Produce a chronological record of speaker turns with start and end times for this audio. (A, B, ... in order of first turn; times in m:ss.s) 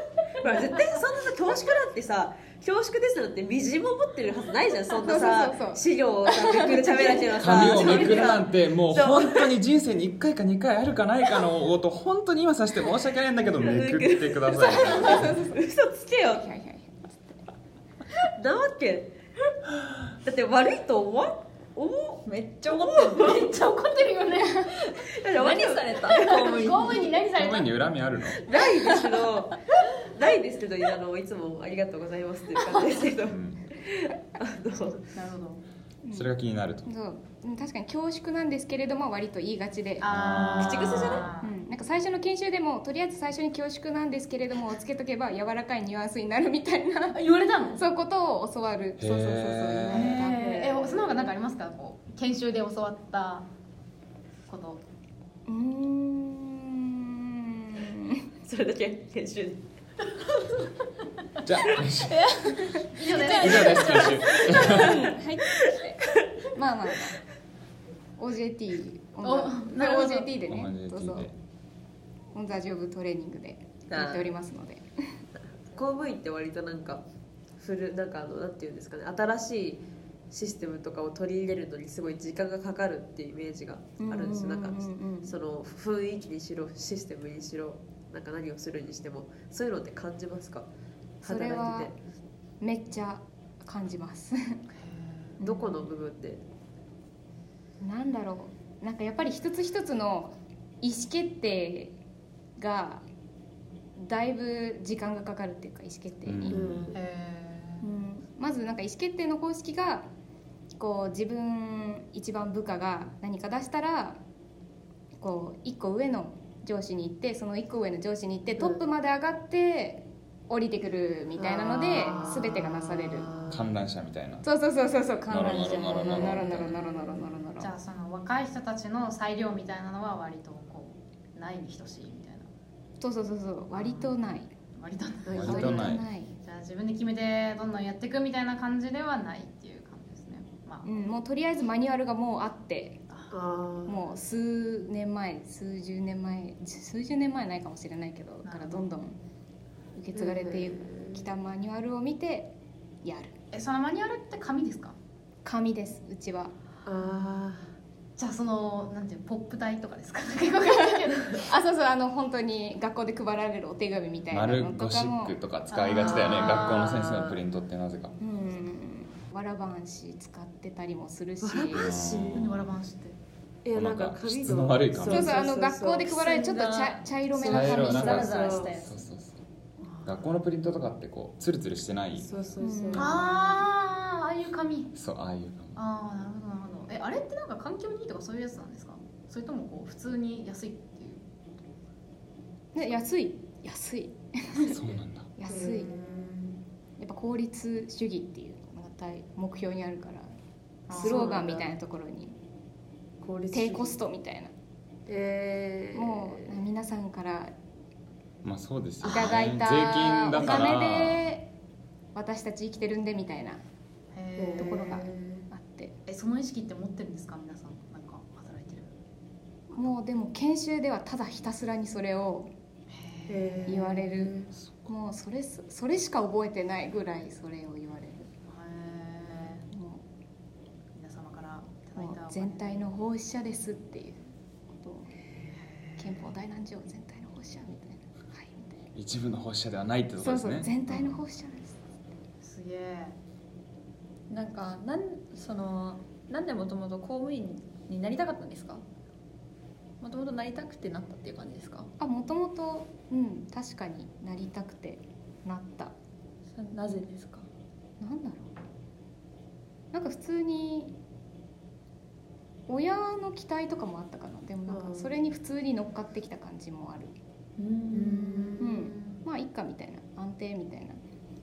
0:00.4-0:09.5 A
0:05.0-0:08.4 B
0:07.4-0:15.3 C
0:13.6-0:16.4 A
0:14.6-0:15.6 B
0:16.2-0:17.4 B
0:18.3-0:19.1 A
0:20.2-0:23.5 A
0:22.2-0:23.4 D
0:23.2-0:24.7 E
0:24.4-0:24.7 B
0:24.9-0:27.1 D
0:25.1-0:26.8 A
0:26.2-0:27.7 E
0:27.3-0:28.4 C
0:28.3-0:35.1 A
0:33.3-0:33.6 C
0:35.1-0:35.6 E
0:36.0-0:36.3 B
0:36.1-0:36.9 C
0:36.8-0:47.2 B
0:40.0-0:41.5 E
0:40.1-0:41.3 C
0:40.6-0:41.3 A
0:47.1-0:47.8 E
0:47.7-0:50.4 B
0:49.0-0:50.2 C
0:49.9-0:53.5 E
0:50.1-0:51.3 A
0:54.5-0:54.8 E
0:55.5-0:58.2 B
0:58.4-0:59.6 A
1:01.4-1:05.1 C
1:02.4-1:07.2 B
1:02.9-1:04.9 E
1:08.2-1:11.3 B
1:09.2-1:10.3 E
1:10.4-1:11.3 C
1:12.3-1:15.2 B
1:13.9-1:14.3 A
1:15.7-1:17.0 A
1:17.6-1:30.7 A
1:24.0-1:25.4 B
1:31.2-1:31.9 B
1:31.2-1:31.9 A
1:32.6-1:34.6 B
1:34.7-1:35.4 E
1:35.4-1:35.9 B
1:35.4-1:36.4 A
1:37.8-1:41.9 B
1:42.6-1:43.0 B
1:44.0-1:46.7 B
1:46.2-1:46.9 C
1:46.5-1:47.0 A
1:46.9-1:47.8 E
1:47.8-1:50.1 B
1:50.8-1:54.2 B
1:55.2-2:03.3 B
2:01.4-2:03.7 A
2:03.5-2:04.4 C
2:04.4-2:07.7 B
2:05.3-2:06.8 C
2:07.6-2:12.5 E
2:13.0-2:14.5 B
2:13.7-2:14.1 E
2:14.7-2:15.9 E
2:15.2-2:15.7 A
2:15.3-2:16.0 C
2:15.4-2:16.3 B
2:16.4-2:20.9 E
2:20.8-2:23.0 B
2:23.1-2:23.3 E
2:23.3-2:24.0 A
2:23.8-2:29.2 B
2:28.4-2:28.9 E
2:29.9-2:33.3 B
2:30.1-2:31.2 A
2:33.5-2:35.0 E
2:35.4-2:36.5 B
2:36.8-2:37.7 A
2:38.2-2:41.4 E
2:40.8-2:45.3 B
2:44.3-2:48.2 C
2:45.8-2:47.4 A
2:45.9-2:46.2 E
2:48.2-2:51.9 B
2:51.4-2:52.7 A
2:51.7-2:52.6 C
2:52.3-2:53.2 E
2:53.6-2:56.5 A
2:53.7-2:55.4 C
2:55.1-2:58.3 B
2:56.4-2:59.0 D
2:57.4-2:59.3 C
2:57.4-2:58.7 A
2:59.8-3:00.2 E
3:00.0-3:02.3 C
3:02.2-3:03.5 A
3:02.6-3:03.2 B
3:02.9-3:04.9 E
3:04.9-3:05.8 C
3:05.8-3:11.2 E
3:12.7-3:14.8 B
3:14.7-3:15.3 C
3:15.4-3:16.0 B
3:15.5-3:16.6 A
3:15.5-3:16.1 E
3:17.0-3:20.3 B
3:20.9-3:21.4 E
3:20.9-3:21.7 A
3:20.9-3:22.4 B
3:23.2-3:24.0 A
3:23.5-3:24.5 B
3:25.1-3:26.5 A
3:25.9-3:27.5 B
3:28.4-3:31.2 C
3:29.0-3:31.5 B
3:32.1-3:33.6 B
3:34.1-3:34.9 E
3:34.4-3:35.4 A
3:34.6-3:36.0 B
3:36.1-3:38.9 E
3:39.7-3:42.5 B
3:42.9-3:43.6 E
3:43.3-3:44.5 A
3:43.7-3:48.3 B
3:48.5-3:49.6 E
3:49.7-3:50.0 B
3:50.9-3:52.9 E
3:52.0-3:54.2 B
3:54.7-3:55.1 B
3:55.6-3:56.1 E
3:56.0-3:58.9 B
3:58.9-4:00.7 C
4:00.2-4:01.8 B
4:02.4-4:03.2 E
4:04.3-4:08.8 D
4:10.0-4:11.9 D
4:12.0-4:15.9 B
4:16.5-4:17.4 D
4:18.0-4:18.5 B
4:19.9-4:20.9 B
4:22.7-4:27.1 B
4:24.7-4:25.1 A
4:27.6-4:28.6 D
4:27.9-4:29.1 E
4:28.3-4:28.7 A
4:28.6-4:31.0 B